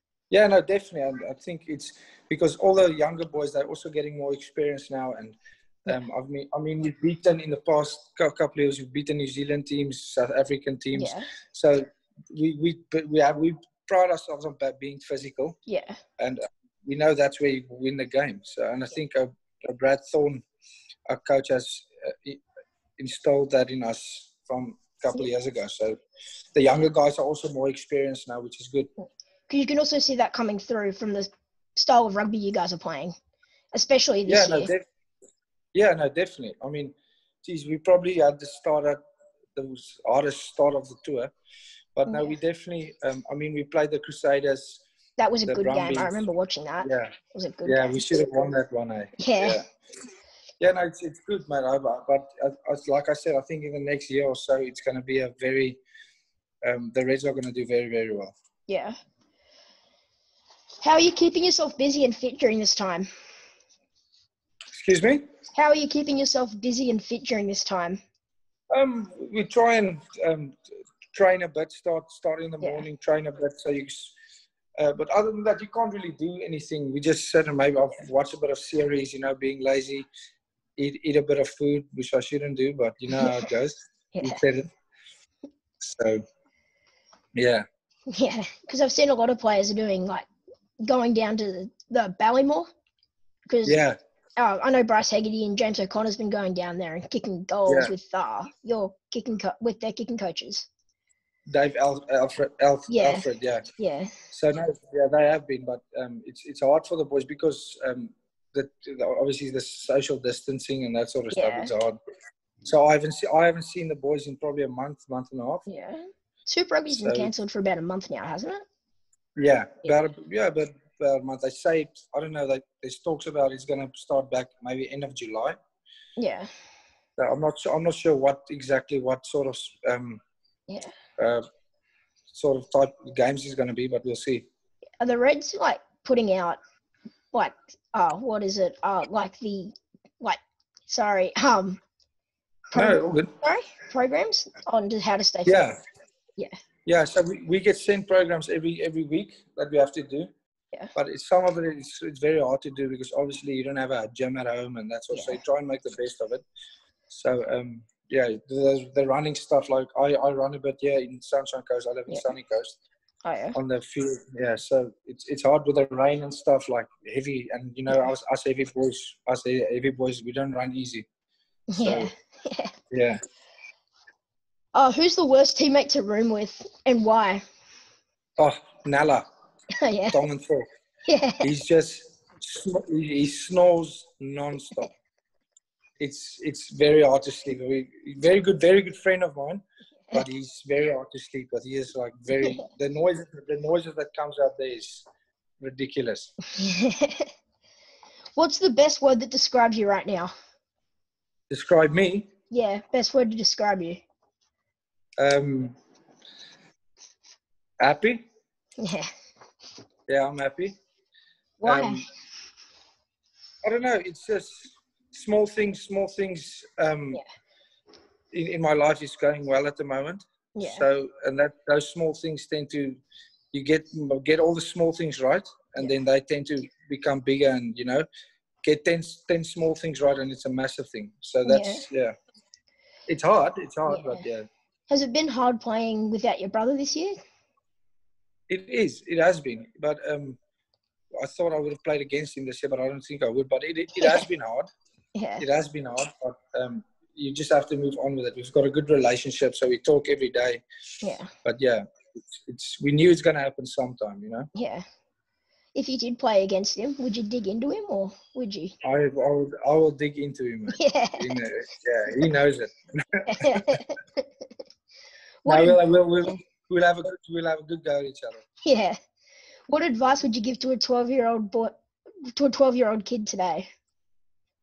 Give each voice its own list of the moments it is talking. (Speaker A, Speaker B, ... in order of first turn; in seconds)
Speaker A: 0.3-15.6, 16.2-20.4, 21.1-22.4, 23.0-26.0, 26.5-28.9, 34.2-34.8, 35.7-39.0, 39.5-41.3, 42.0-44.8, 45.5-46.2, 46.8-47.1, 47.6-49.6, 50.6-55.8, 56.6-58.3, 64.7-65.2, 68.7-70.6, 71.1-74.1, 74.8-80.0, 80.8-84.7, 85.8-86.2, 87.3-87.6, 93.6-94.0, 97.7-97.9, 101.5-103.6, 104.3-112.0, 112.7-115.7, 117.0-117.3, 119.3-125.5, 127.2-130.2, 131.2-131.4, 132.3-134.4, 142.7-143.3, 145.4-145.8, 146.8-150.3, 150.9-156.4, 157.1-162.8, 163.5-171.1, 171.8-172.1, 172.9-173.2, 178.4-179.2, 180.1-180.6, 181.4-184.9, 186.0-195.1, 195.6-196.3, 201.5-202.3, 205.2-205.8, 207.8-208.2, 210.1-210.7, 211.6-212.0, 213.6-217.2, 218.3-223.0, 223.5-228.0, 228.6-232.1, 233.1-234.5, 238.5-240.4, 241.2-244.7, 245.4-250.6, 251.4-254.5, 258.8-263.8, 265.4-268.4
Speaker B: 10.9-11.3, 15.7-16.0, 29.5-33.1, 33.7-34.7, 42.1-42.3, 45.2-48.4, 49.2-49.6, 58.7-58.9, 60.8-63.1, 65.5-68.0, 84.1-84.4, 88.1-90.3, 90.8-92.7, 93.5-93.8, 94.4-100.7, 102.9-103.3, 103.8-104.2, 111.3-111.7, 115.7-118.6, 126.2-126.5, 135.0-136.6, 137.3-141.8, 142.7-145.7, 155.1-155.4, 163.2-163.6, 171.7-172.7, 174.7-177.4, 179.8-180.2, 181.1-181.5, 196.5-197.3, 198.3-200.3, 202.5-204.0, 208.8-209.1, 211.6-212.1, 220.5-220.9, 231.4-231.8, 233.9-234.2, 234.9-237.2, 244.0-244.2, 245.1-245.4, 251.0-251.3, 254.5-254.8, 255.7-258.7, 260.7-261.2, 263.3-264.3, 265.4-265.8, 268.6-269.0, 269.7-273.7